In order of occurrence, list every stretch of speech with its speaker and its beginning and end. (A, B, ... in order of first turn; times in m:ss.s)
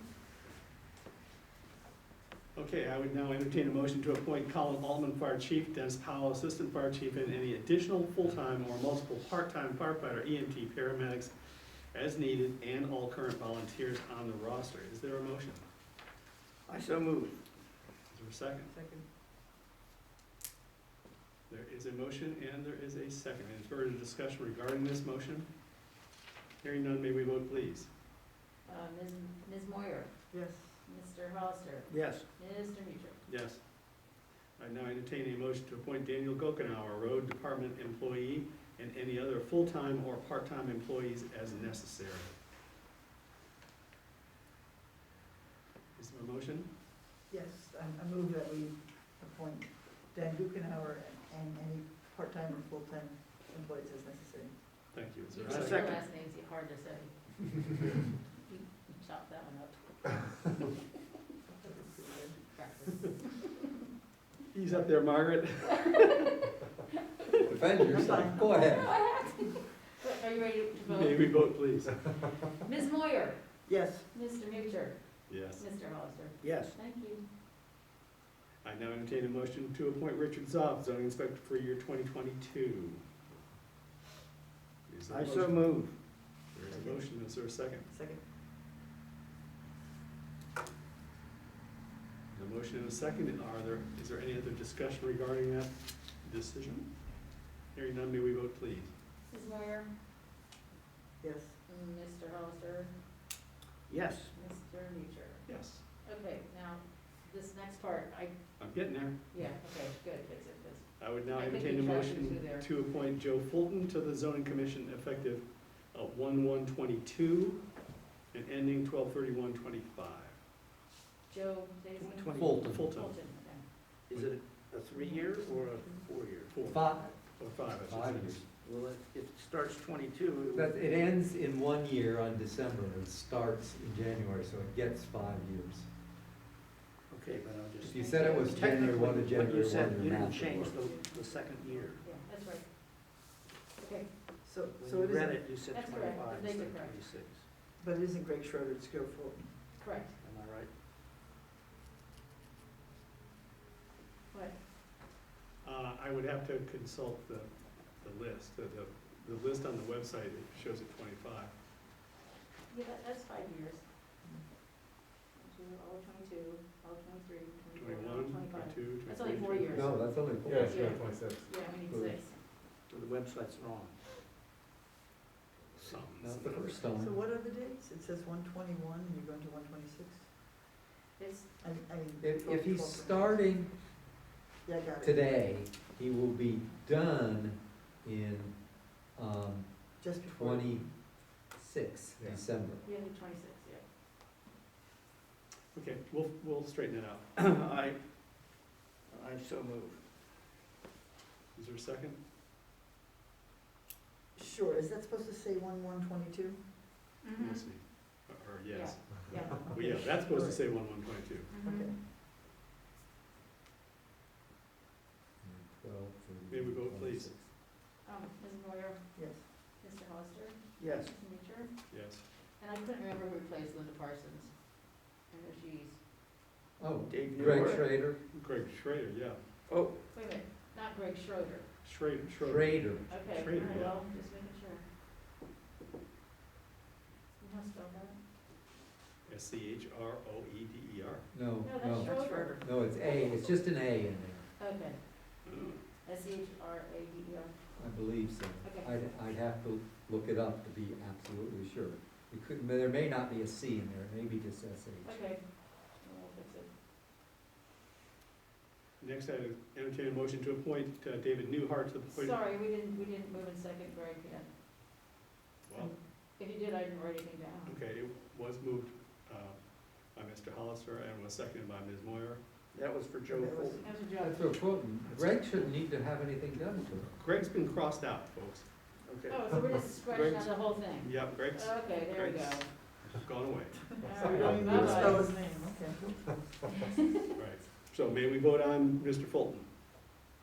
0:02.6-0:11.3 A
0:11.9-0:15.6 A
0:16.7-0:17.4 B
0:18.1-0:18.7 A
0:18.7-0:19.0 C
0:21.5-0:25.5 A
0:26.6-0:27.9 A
0:28.7-0:30.1 D
0:30.3-0:30.8 C
0:30.8-0:33.2 D
0:31.9-0:32.2 B
0:33.3-0:33.6 A
0:34.6-0:42.4 A
0:46.0-0:46.7 A
0:47.3-0:54.6 C
0:54.9-0:55.9 A
0:55.3-0:57.1 D
0:55.5-0:56.0 B
0:58.5-0:59.8 D
1:01.6-1:02.5 C
1:02.5-1:03.5 D
1:04.5-1:06.4 A
1:07.5-1:09.1 E
1:07.8-1:08.3 A
1:07.9-1:09.4 C
1:08.8-1:11.3 D
1:10.9-1:12.1 A
1:12.6-1:13.4 D
1:13.7-1:14.1 C
1:14.1-1:17.2 D
1:15.3-1:15.7 A
1:16.4-1:16.8 B
1:18.6-1:23.0 A
1:24.9-1:26.0 A
1:25.1-1:26.0 B
1:26.5-1:27.9 A
1:26.7-1:27.2 C
1:27.9-1:28.2 C
1:32.3-1:36.9 A
1:37.7-1:38.9 A
1:39.3-1:39.9 D
1:41.2-1:41.6 C
1:41.7-1:42.9 D
1:43.9-1:44.3 B
1:44.3-1:45.5 D
1:45.5-1:45.8 A
1:46.0-1:48.4 D
1:48.6-1:49.2 A
1:49.3-1:52.7 D
1:51.0-1:57.6 A
1:58.3-2:00.4 A
2:01.3-2:03.6 D
2:02.0-2:02.7 B
2:02.4-2:02.9 E
2:02.6-2:03.2 A
2:04.1-2:06.6 B
2:04.9-2:06.1 C
2:06.5-2:08.4 A
2:06.7-2:07.1 E
2:07.7-2:08.4 E
2:08.6-2:10.8 B
2:10.5-2:15.9 E
2:17.1-2:22.0 B
2:17.8-2:20.7 E
2:17.9-2:18.9 D
2:20.4-2:23.2 D
2:23.8-2:24.1 D
2:24.4-2:25.5 C
2:24.8-2:27.4 B
2:25.7-2:27.1 D
2:27.8-2:29.6 C
2:29.8-2:30.2 D
2:30.2-2:30.7 B
2:34.3-2:34.6 D
2:35.6-2:37.5 A
2:38.0-2:41.5 A
2:42.7-2:43.8 D
2:45.4-2:52.4 D
2:47.8-2:50.1 A
2:49.7-2:52.2 E
2:52.9-2:54.0 B
2:55.8-2:56.1 B
2:55.8-2:56.9 A
2:56.2-2:57.2 E
2:57.0-3:00.3 C
3:01.2-3:01.5 D
3:01.6-3:03.4 C
3:02.2-3:03.7 E
3:04.6-3:05.3 C
3:05.0-3:10.9 E
3:10.0-3:10.9 C
3:11.4-3:12.8 E
3:12.8-3:13.8 D
3:15.7-3:17.4 A
3:17.4-3:18.0 B
3:19.1-3:20.0 B
3:21.6-3:22.2 A
3:24.4-3:26.6 C
3:27.2-3:27.8 D
3:27.4-3:31.5 A
3:28.7-3:29.6 D
3:29.6-3:30.7 C
3:31.5-3:31.9 D
3:31.6-3:32.0 C
3:35.4-3:37.5 E
3:36.5-3:37.3 A
3:38.0-3:41.7 D
3:39.2-3:39.4 C
3:40.8-3:41.1 B
3:41.9-3:42.2 A
3:42.6-3:44.5 D
3:45.2-3:46.0 D
3:46.8-3:48.2 E
3:47.1-3:48.0 B
3:47.4-3:49.4 A
3:49.7-3:50.0 B
3:50.1-3:51.7 D
3:51.8-3:54.0 A
3:52.4-3:53.0 E
3:53.1-3:54.8 D
3:57.4-3:58.2 D
3:59.3-4:01.3 A
4:01.3-4:04.5 E
4:01.6-4:03.6 D
4:02.0-4:02.6 C
4:04.6-4:05.0 D
4:05.4-4:05.8 A
4:06.0-4:07.5 D
4:07.8-4:15.2 E
4:08.6-4:08.9 D
4:15.0-4:16.7 D
4:19.0-4:22.4 A
4:22.1-4:24.5 D
4:25.6-4:25.9 A
4:26.4-4:27.8 D
4:27.7-4:29.6 A
4:30.1-4:32.4 A
4:32.7-4:33.8 B
4:33.3-4:33.9 C
4:33.8-4:34.7 D
4:34.2-4:37.1 E
4:35.1-4:35.4 A
4:37.1-4:38.7 A
4:39.0-4:39.4 B
4:39.3-4:42.7 D
4:40.1-4:44.6 A
4:43.9-4:46.7 C
4:44.0-4:45.3 D
4:44.2-4:45.2 E
4:46.7-4:47.0 D
4:47.4-4:49.7 A